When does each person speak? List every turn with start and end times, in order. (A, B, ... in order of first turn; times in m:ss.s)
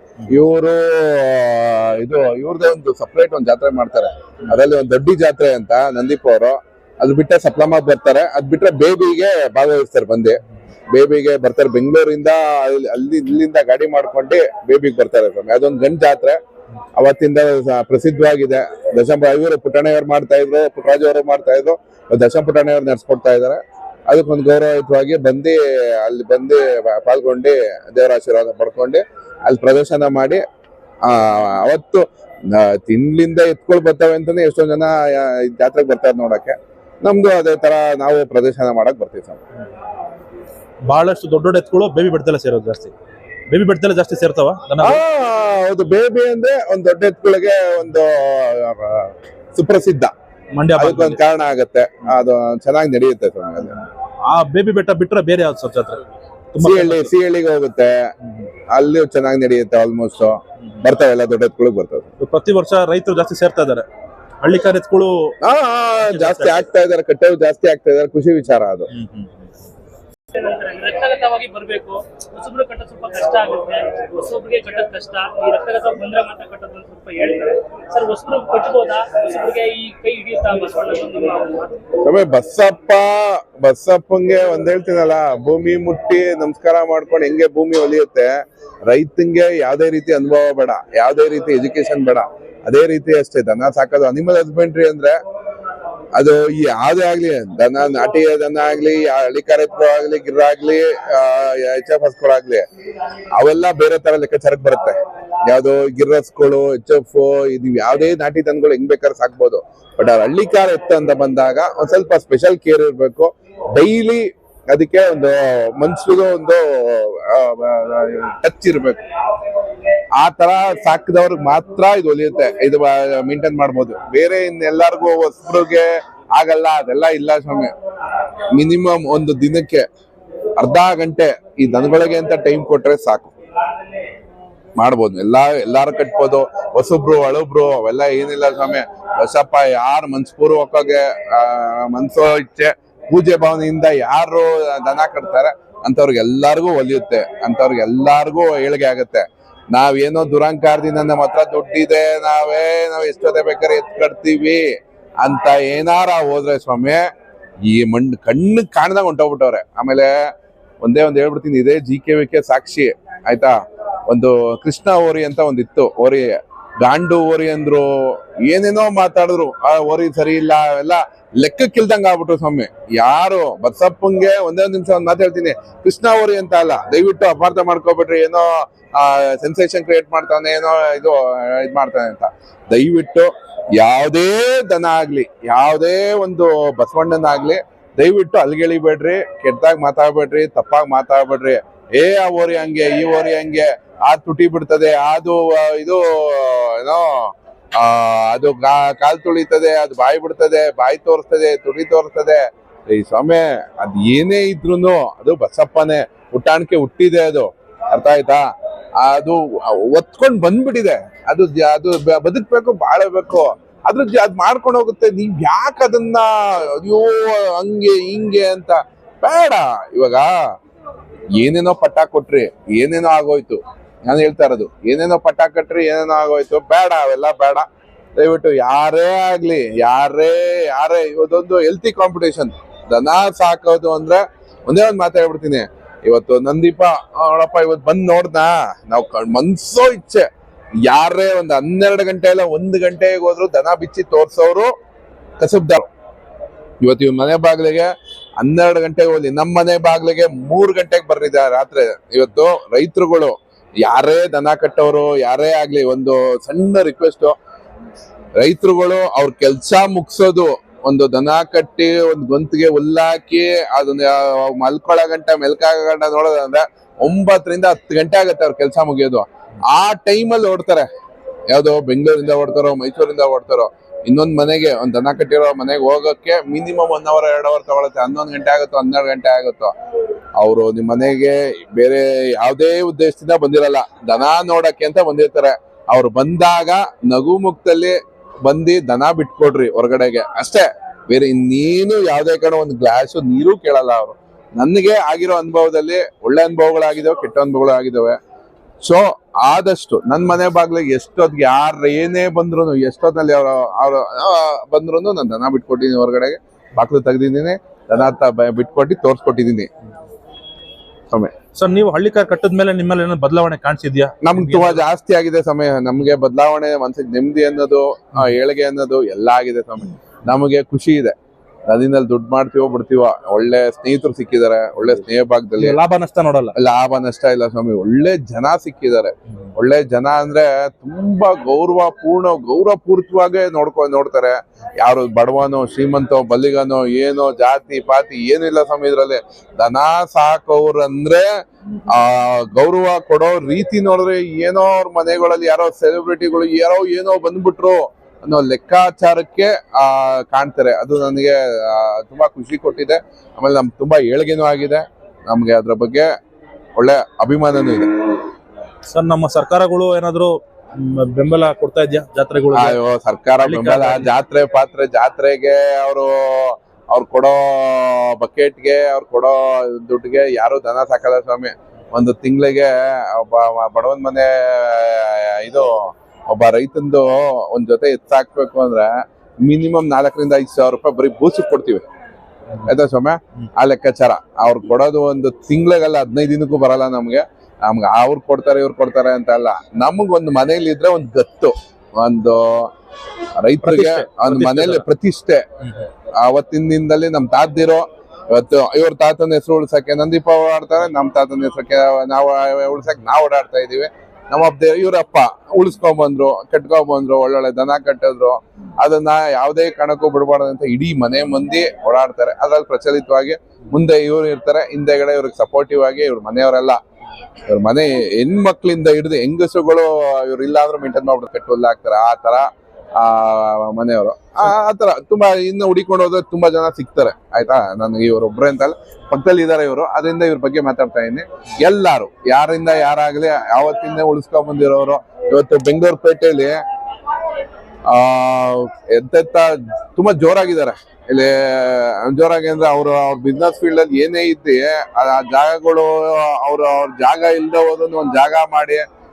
0:00.3-0:16.4 A
0:17.0-0:30.4 A
0:31.0-0:39.4 A
0:40.9-0:42.9 B
0:43.5-0:45.0 B
0:44.8-0:50.1 A
0:50.5-0:51.2 B
0:50.8-0:53.8 A
0:54.2-0:56.0 B
0:56.5-0:57.1 B
0:56.6-0:58.1 A
0:58.7-1:02.1 A
1:02.2-1:03.8 B
1:04.4-1:05.4 B
1:05.4-1:08.9 A
1:06.0-1:06.6 B
1:08.9-1:09.4 B
1:10.3-1:21.8 C
1:22.0-1:35.2 A
1:36.2-1:42.6 A
1:43.4-1:59.0 A
2:00.2-2:07.7 A
2:08.5-2:09.8 A
2:10.6-2:13.3 A
2:14.8-2:34.6 A
2:35.2-2:37.0 A
2:37.6-2:43.6 A
2:44.1-3:40.3 A
3:41.4-4:00.3 A
4:00.8-4:04.7 A
4:05.4-4:05.9 A
4:06.8-4:17.4 A
4:18.4-4:30.9 A
4:31.5-4:39.7 A
4:40.4-4:58.2 A
4:58.8-5:09.7 A
5:11.5-5:14.8 B
5:14.2-5:21.2 A
5:21.7-5:25.8 A
5:25.6-5:26.6 B
5:26.5-5:56.1 A
5:56.8-5:57.9 A
5:58.9-6:02.8 B
6:02.5-6:21.8 A
6:03.4-6:04.1 B
6:22.6-6:32.7 A
6:33.4-6:35.4 A
6:33.6-6:34.8 B
6:36.1-6:56.8 A
6:57.5-7:16.6 A
7:17.8-7:28.8 A